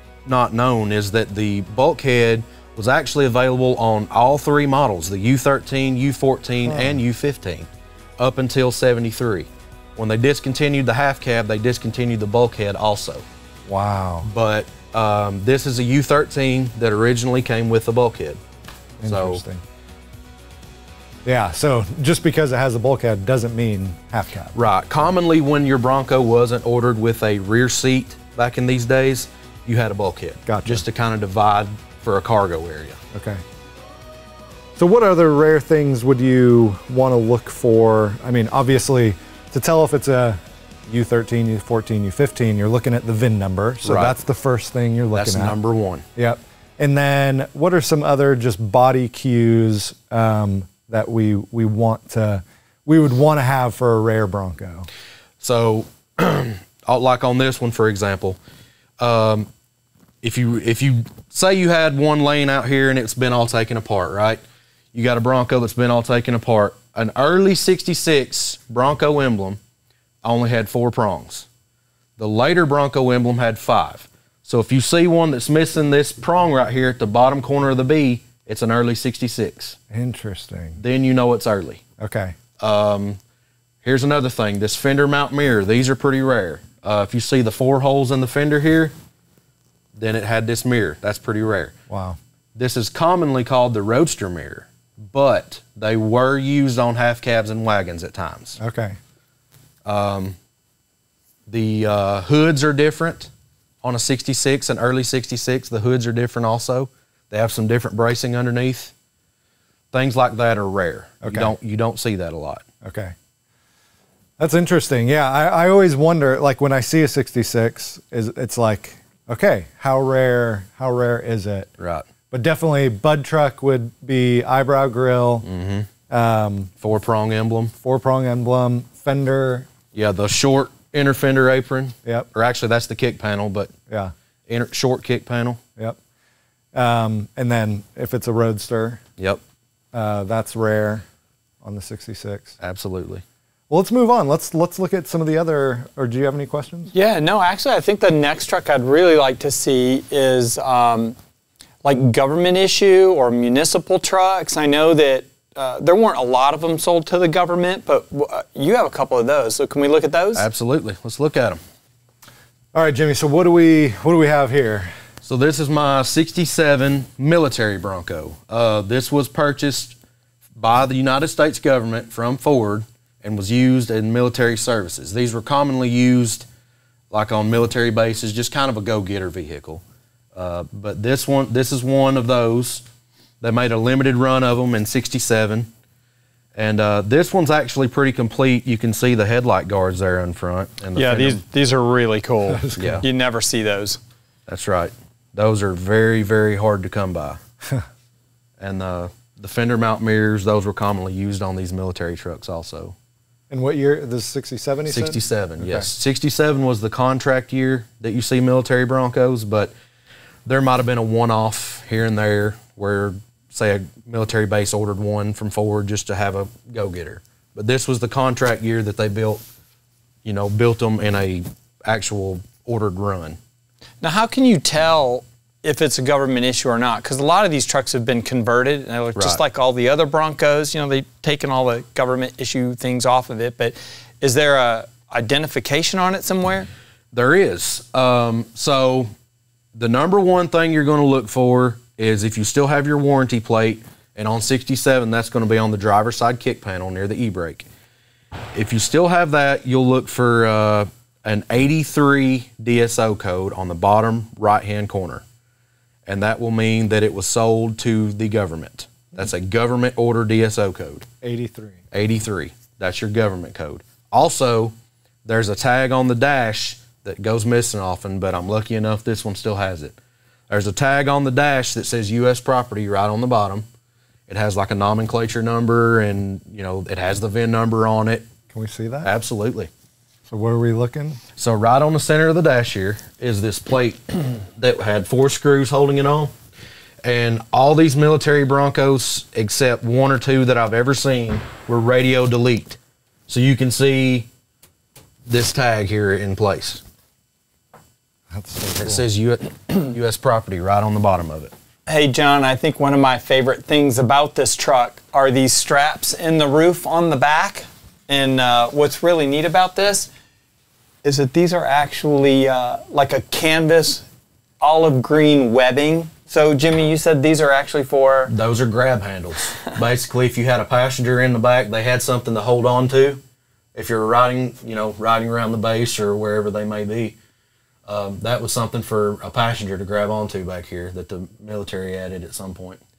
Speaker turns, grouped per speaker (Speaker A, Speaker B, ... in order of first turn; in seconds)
Speaker A: 0.2-13.2, 14.3-18.4, 19.1-19.4, 24.6-33.0, 43.8-44.2, 45.1-46.0, 55.4-58.4, 59.0-59.5, 60.2-64.4, 64.9-69.6, 70.2-71.5, 72.2-79.8, 80.8-81.8, 82.6-83.2, 83.8-88.9, 90.0-91.8, 92.6-98.6, 99.8-100.4, 101.5-103.3, 103.8-108.9, 109.9-112.6, 121.8-122.1, 125.4-125.9, 126.8-127.7, 129.9-133.7, 134.5-135.6, 142.6-143.2, 160.3-161.6, 165.2-170.0, 170.6-176.5, 177.1-179.8, 180.3-182.8, 183.4-185.7, 186.6-191.4, 192.8-193.1, 194.5-197.4, 198.6-202.9, 204.9-209.7, 210.4-219.4, 220.2-223.4, 229.2-229.4, 237.1-239.1, 239.8-247.7, 248.5-255.2, 256.1-261.1, 261.9-270.0, 270.5-273.7, 274.3-278.3, 279.0-279.7, 281.4-286.3, 287.0-294.3, 295.3-296.8, 298.8-301.5, 318.3-323.2, 323.8-327.2, 327.9-332.8
Speaker B: 6.7-7.0, 13.7-14.3, 19.0-19.6, 21.2-24.6, 30.5-30.8, 33.1-33.4, 34.8-45.6, 46.2-54.9, 79.9-80.8, 82.0-82.4, 91.9-92.2, 98.6-99.0, 111.2-111.5, 112.8-113.2, 114.4-121.7, 122.3-125.5, 126.1-126.7, 127.8-129.7, 133.9-134.1, 136.7-139.0, 139.9-141.1, 141.6-142.6, 143.7-146.9, 162.7-164.9, 192.5-193.1, 203.5-205.9, 261.2-261.8, 278.5-279.1, 280.3-281.2, 298.3-299.0
Speaker C: 146.9-151.2, 151.8-160.5, 190.9-194.0, 224.0-236.7, 301.9-310.1, 311.0-314.1, 314.6-318.3